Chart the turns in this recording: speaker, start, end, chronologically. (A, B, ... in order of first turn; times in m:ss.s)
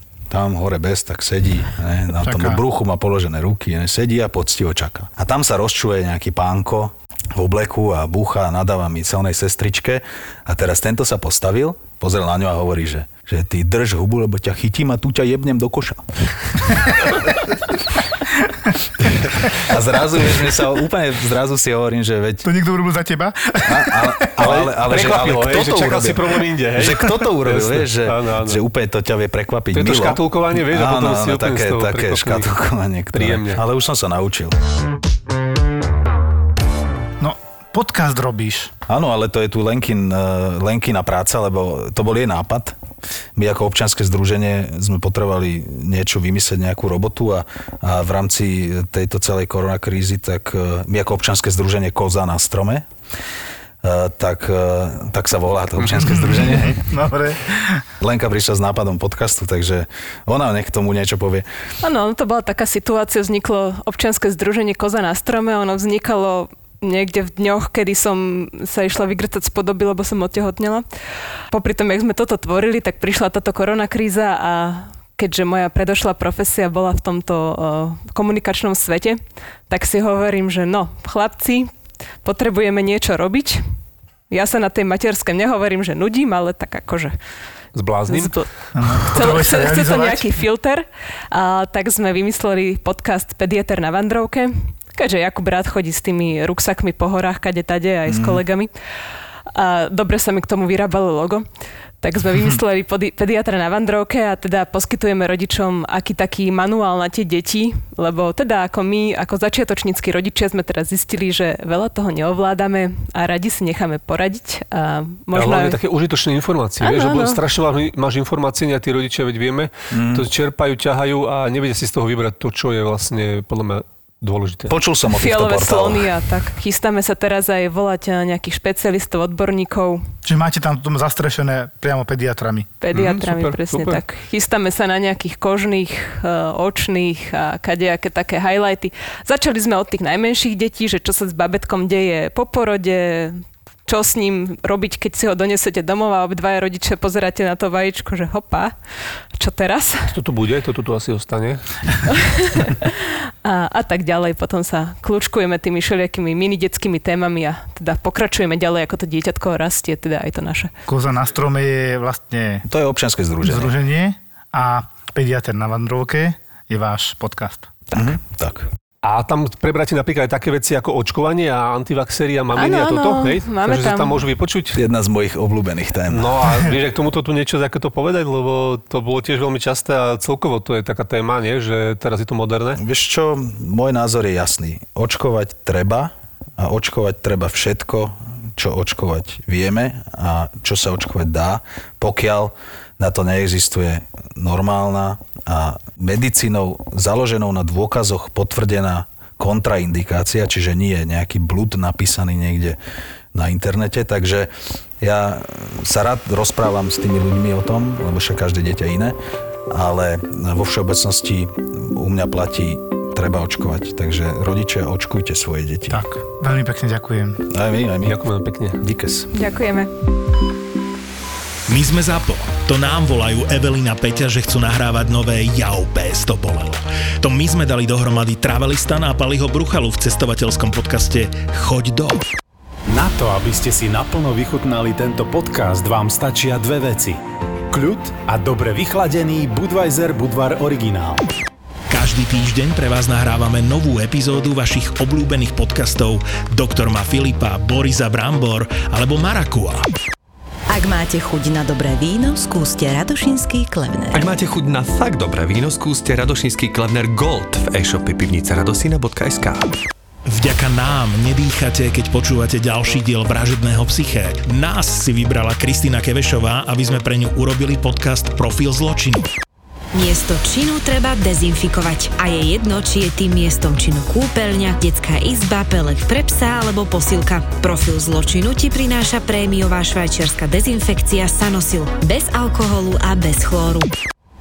0:00.3-0:16.5 A
0:02.2-0:02.6 B
0:19.6-0:22.5 A
0:22.4-0:24.4 B
0:23.6-0:34.6 A
0:24.4-0:28.6 C
0:29.7-0:32.5 C
0:33.1-0:33.6 C
0:37.2-0:38.7 B
0:38.9-0:42.8 A
0:43.4-0:52.9 A
0:53.8-0:56.8 A
0:56.0-0:57.8 B
0:58.0-1:01.5 A
1:01.8-1:10.8 D
1:11.5-1:21.7 D
1:22.2-1:23.6 D
1:24.3-1:27.2 D
1:27.7-1:28.5 C
1:28.1-1:28.3 D
1:28.7-1:30.3 B
1:29.0-1:38.7 D
1:39.5-1:41.4 D
1:42.0-1:55.8 D
1:55.3-2:04.7 C
1:56.8-1:57.4 D
1:59.9-2:00.3 A
2:04.7-2:06.2 A
2:05.1-2:10.0 D
2:10.2-2:12.7 B
2:12.8-2:28.7 D
2:12.9-2:14.0 C
2:29.4-2:30.1 D
2:30.1-2:32.0 C
2:32.1-2:40.7 D
2:40.9-2:42.7 B
2:42.7-2:43.7 A
2:43.4-2:47.7 B
2:47.9-2:48.7 A
2:49.0-2:54.8 C
2:52.5-2:54.2 D
2:54.7-2:56.4 A
2:56.1-3:02.8 C
3:02.8-3:22.8 A
3:23.3-3:29.2 A
3:29.7-3:36.0 A
3:35.9-3:37.4 B
3:37.5-3:38.2 A
3:38.0-3:38.8 C
3:38.8-3:39.3 A
3:39.3-3:39.9 D
3:41.7-3:52.2 E
3:52.9-4:01.3 F
4:01.9-4:09.9 E
4:10.7-4:14.1 G
4:14.1-4:19.7 H
4:20.3-4:29.3 E
4:29.9-4:44.0 I